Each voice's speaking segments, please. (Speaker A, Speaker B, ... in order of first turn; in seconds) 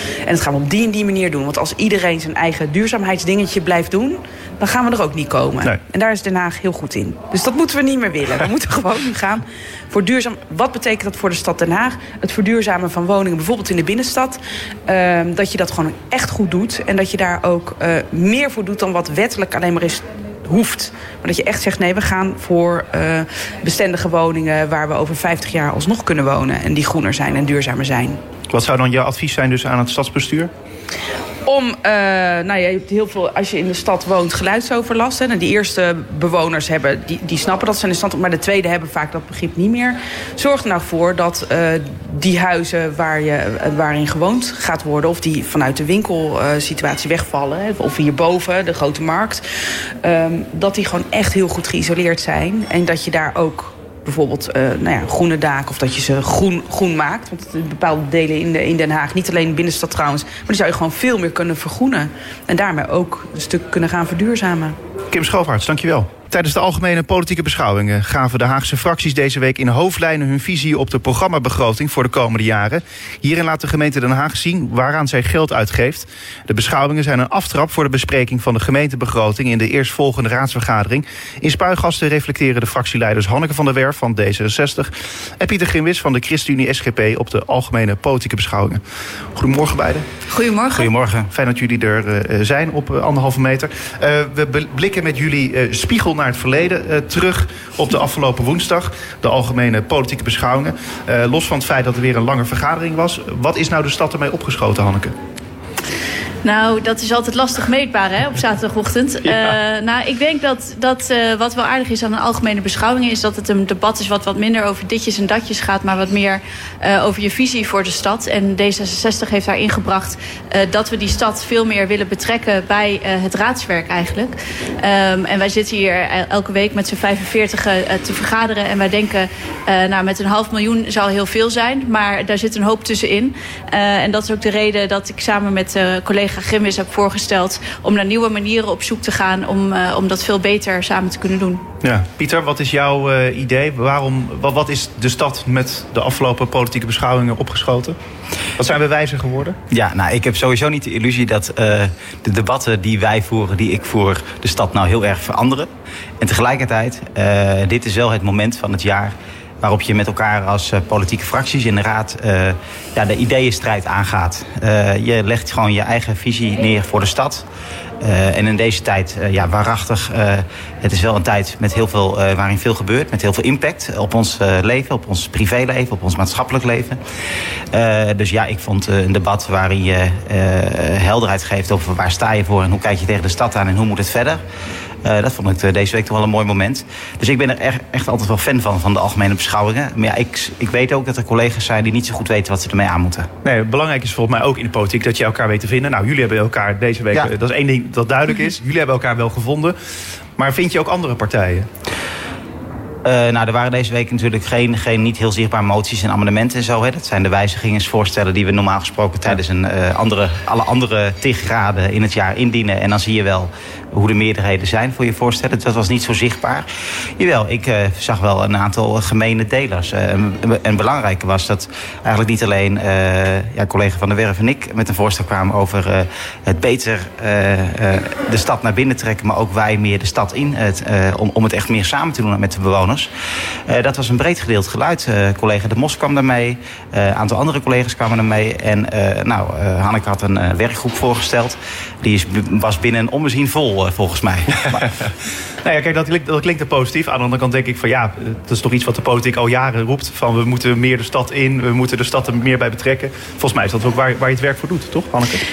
Speaker A: 0.2-28.2, 31.5-49.5, 50.0-64.8
Speaker B: 28.5-30.5, 65.1-88.8, 89.3-90.1, 91.3-105.1, 141.8-148.0, 148.6-149.6, 193.4-199.8, 200.4-201.7, 245.6-255.4
Speaker C: 90.3-90.9, 106.4-141.7
Speaker D: 90.7-91.3, 149.7-155.7, 156.2-167.5, 168.0-177.0, 177.7-184.4, 185.0-193.3, 203.1-216.7, 217.2-233.1, 233.7-244.9